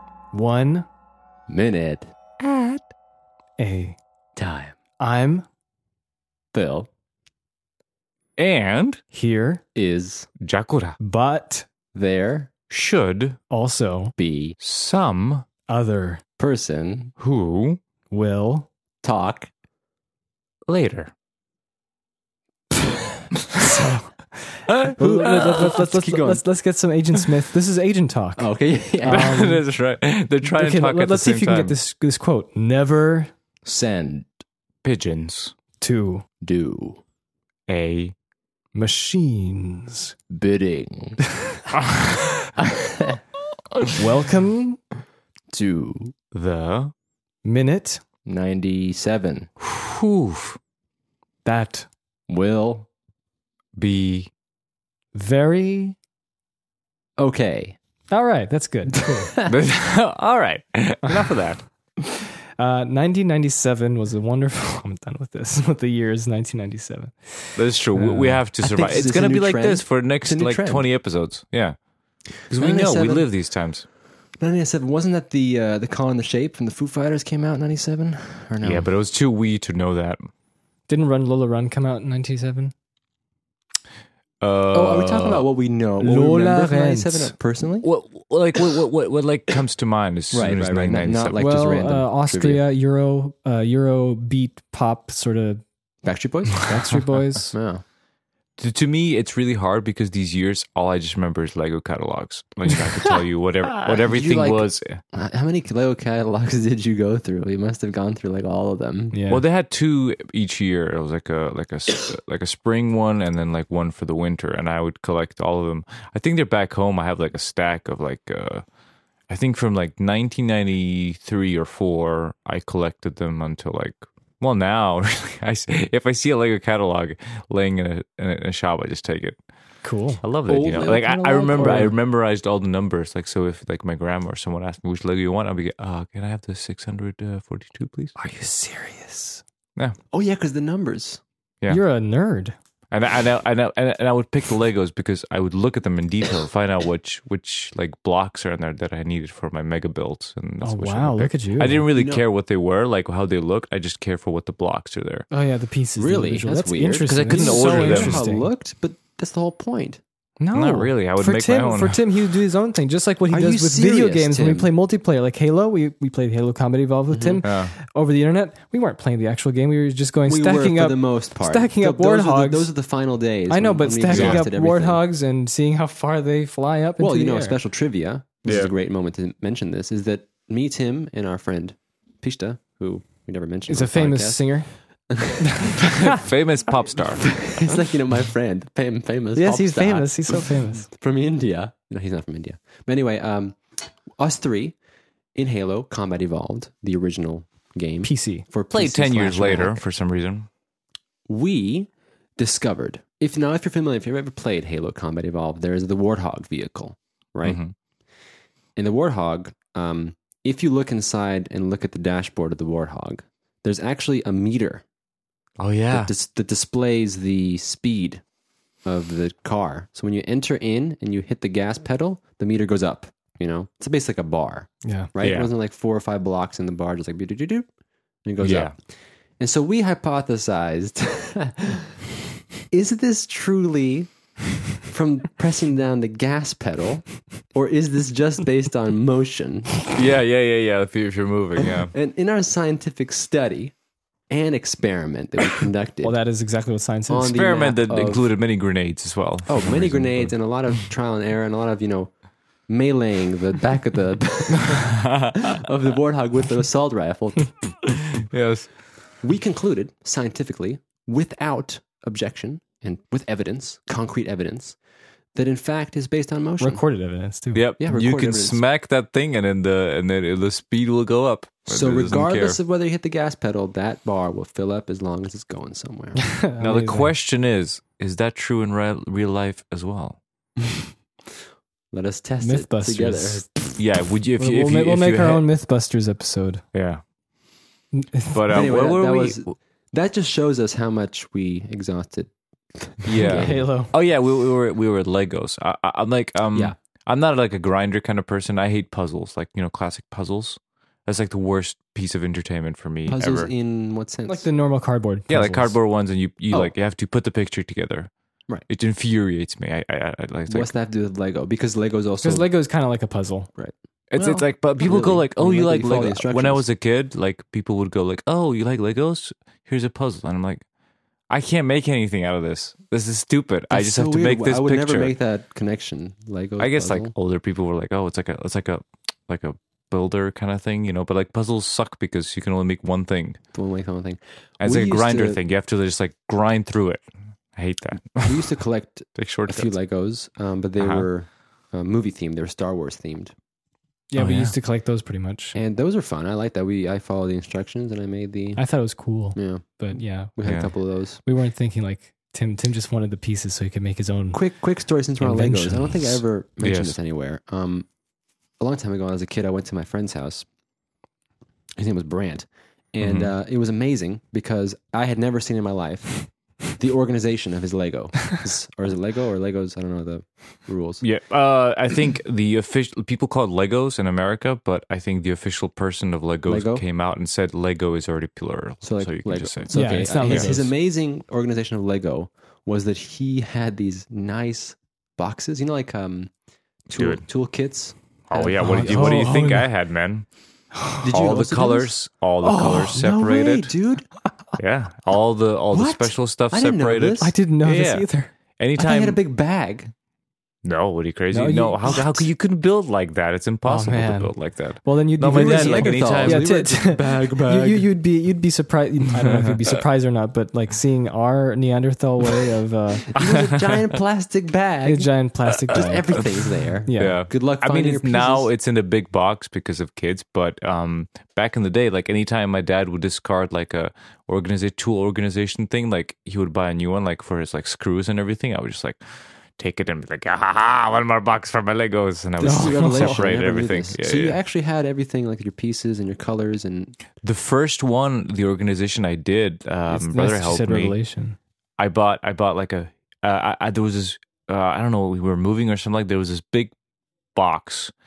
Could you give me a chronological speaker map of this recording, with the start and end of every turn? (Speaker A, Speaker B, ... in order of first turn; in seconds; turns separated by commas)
Speaker A: 0.3-0.9, Speaker B: 1.5-2.1, Speaker C: 2.4-2.9, Speaker A: 3.6-4.0, Speaker B: 4.4-4.8, Speaker A: 5.0-5.5, Speaker B: 6.5-6.9, Speaker C: 8.4-9.0, Speaker A: 9.1-9.6, Speaker B: 9.8-10.3, Speaker C: 10.4-11.0, Speaker A: 11.0-11.7, Speaker B: 11.9-12.5, Speaker C: 12.7-13.4, Speaker A: 13.5-14.1, Speaker B: 14.2-14.6, Speaker C: 14.6-15.5, Speaker A: 15.7-16.2, Speaker B: 16.4-17.1, Speaker C: 17.2-17.8, Speaker A: 18.1-18.7, Speaker B: 19.0-19.5, Speaker C: 20.7-21.1, Speaker A: 23.6-28.5, Speaker C: 24.7-25.0, Speaker B: 25.0-26.4, Speaker B: 28.4-29.4, Speaker A: 29.0-29.6, Speaker C: 29.1-31.8, Speaker A: 30.4-33.3, Speaker B: 33.7-34.3, Speaker C: 34.8-35.5, Speaker A: 35.8-36.2, Speaker B: 36.4-37.0, Speaker C: 37.7-38.1, Speaker A: 38.8-40.1, Speaker B: 40.3-41.2, Speaker C: 41.8-42.4, Speaker B: 42.6-43.2, Speaker A: 44.0-44.8, Speaker B: 45.5-46.1, Speaker C: 46.3-46.9, Speaker A: 47.4-48.0, Speaker B: 48.3-49.5, Speaker C: 49.6-50.6, Speaker A: 51.5-51.9, Speaker B: 52.3-52.9, Speaker C: 53.8-54.3, Speaker A: 55.1-56.0, Speaker B: 57.2-57.8, Speaker A: 58.1-59.3, Speaker B: 59.2-59.5, Speaker C: 59.5-61.6, Speaker A: 62.6-68.4, Speaker C: 67.6-71.8, Speaker B: 68.6-70.9, Speaker B: 72.5-73.3, Speaker C: 72.5-73.9, Speaker B: 74.4-78.9, Speaker C: 78.6-80.3, Speaker A: 80.9-82.7, Speaker C: 84.4-85.5, Speaker B: 84.7-87.9, Speaker A: 86.0-87.3, Speaker C: 87.8-91.4, Speaker B: 90.3-92.6, Speaker A: 91.3-95.6, Speaker B: 96.0-96.7, Speaker A: 96.6-97.5, Speaker B: 97.5-97.8, Speaker C: 98.6-105.0, Speaker B: 103.8-109.2, Speaker A: 109.1-109.4, Speaker C: 109.3-118.7, Speaker C: 119.3-129.4, Speaker A: 129.8-131.9, Speaker C: 130.2-138.2, Speaker B: 130.5-131.9, Speaker A: 138.2-139.4, Speaker B: 140.1-141.2, Speaker A: 141.7-142.6, Speaker C: 142.9-155.3, Speaker A: 150.6-151.9, Speaker B: 151.9-152.2, Speaker A: 155.3-158.5, Speaker B: 156.0-160.0, Speaker C: 157.1-158.2, Speaker A: 160.4-172.7, Speaker C: 160.5-162.1, Speaker B: 163.3-164.7, Speaker B: 167.1-167.4, Speaker C: 167.4-167.7, Speaker B: 170.3-175.0, Speaker A: 173.5-177.6, Speaker C: 174.1-174.4, Speaker B: 177.0-185.7, Speaker C: 178.4-178.7, Speaker A: 183.7-184.7, Speaker A: 185.4-186.1, Speaker C: 185.8-187.8, Speaker B: 187.2-193.6, Speaker A: 189.4-190.9, Speaker B: 194.2-194.8, Speaker B: 195.3-199.8, Speaker A: 198.0-198.5, Speaker C: 198.7-200.5, Speaker B: 201.3-207.6, Speaker C: 207.4-207.7, Speaker B: 208.8-214.8, Speaker C: 215.6-216.1, Speaker B: 215.9-218.2, Speaker B: 218.8-227.7, Speaker A: 224.8-225.1, Speaker C: 225.2-225.5, Speaker B: 228.2-228.8, Speaker C: 228.4-228.7, Speaker B: 229.4-231.9, Speaker B: 232.7-234.1, Speaker B: 234.8-240.0, Speaker C: 239.9-241.9, Speaker B: 241.9-243.7, Speaker B: 244.3-246.2, Speaker A: 246.0-247.3, Speaker B: 247.1-248.3, Speaker C: 247.2-250.3, Speaker B: 249.5-252.1, Speaker B: 252.7-257.9, Speaker C: 254.9-255.6, Speaker C: 258.0-258.7, Speaker B: 259.2-264.8, Speaker B: 265.3-266.8, Speaker A: 266.6-267.6, Speaker C: 267.5-272.6, Speaker B: 267.8-268.6, Speaker B: 271.7-276.3, Speaker A: 276.2-277.1, Speaker C: 276.6-280.2, Speaker B: 281.9-283.6, Speaker A: 282.4-283.5, Speaker C: 283.8-285.4, Speaker A: 284.4-286.6, Speaker C: 286.7-287.0, Speaker A: 287.9-288.3, Speaker C: 288.3-289.4, Speaker B: 288.5-293.7, Speaker C: 293.1-303.5, Speaker A: 293.3-293.9, Speaker B: 303.1-304.5, Speaker A: 304.3-305.8, Speaker C: 305.3-308.1, Speaker C: 308.7-310.7, Speaker B: 310.5-312.5, Speaker A: 312.2-313.5, Speaker B: 313.6-316.6, Speaker C: 314.1-320.6, Speaker C: 321.3-325.1, Speaker B: 323.7-327.1, Speaker C: 326.6-333.4, Speaker B: 333.5-335.4, Speaker C: 334.6-337.0, Speaker C: 337.6-338.5, Speaker B: 338.2-343.3, Speaker C: 339.2-339.7, Speaker C: 340.8-341.1, Speaker A: 344.1-345.6, Speaker C: 344.2-344.5, Speaker B: 345.6-348.6, Speaker A: 348.6-350.3, Speaker B: 349.4-349.8, Speaker B: 350.4-351.2, Speaker C: 350.4-350.7, Speaker A: 351.2-354.4, Speaker B: 354.3-357.9, Speaker A: 355.2-355.9, Speaker C: 356.6-357.0, Speaker B: 358.6-360.4, Speaker B: 361.8-371.0, Speaker C: 363.0-363.3, Speaker C: 371.0-380.6, Speaker B: 376.5-376.8, Speaker B: 378.8-386.3, Speaker A: 379.7-380.7, Speaker B: 386.9-389.3, Speaker C: 387.0-387.3, Speaker C: 388.3-390.3, Speaker A: 388.5-389.7, Speaker A: 390.8-391.0, Speaker B: 391.0-394.1, Speaker C: 391.0-393.7, Speaker A: 392.5-392.9, Speaker C: 394.6-398.1, Speaker B: 395.7-397.3, Speaker A: 397.2-398.3, Speaker C: 398.6-399.2, Speaker B: 398.8-399.9, Speaker C: 400.6-406.4, Speaker A: 401.3-402.0, Speaker A: 403.6-404.3, Speaker A: 404.8-413.2, Speaker B: 405.2-407.9, Speaker C: 409.3-409.6, Speaker B: 413.1-415.1, Speaker A: 414.9-416.1, Speaker C: 415.7-416.2, Speaker B: 415.7-418.5, Speaker A: 416.9-417.2, Speaker C: 416.9-429.0, Speaker C: 429.6-434.4, Speaker B: 432.4-437.0, Speaker A: 432.4-433.2, Speaker C: 437.2-441.0, Speaker A: 439.9-441.4, Speaker C: 441.8-446.7, Speaker C: 447.3-447.9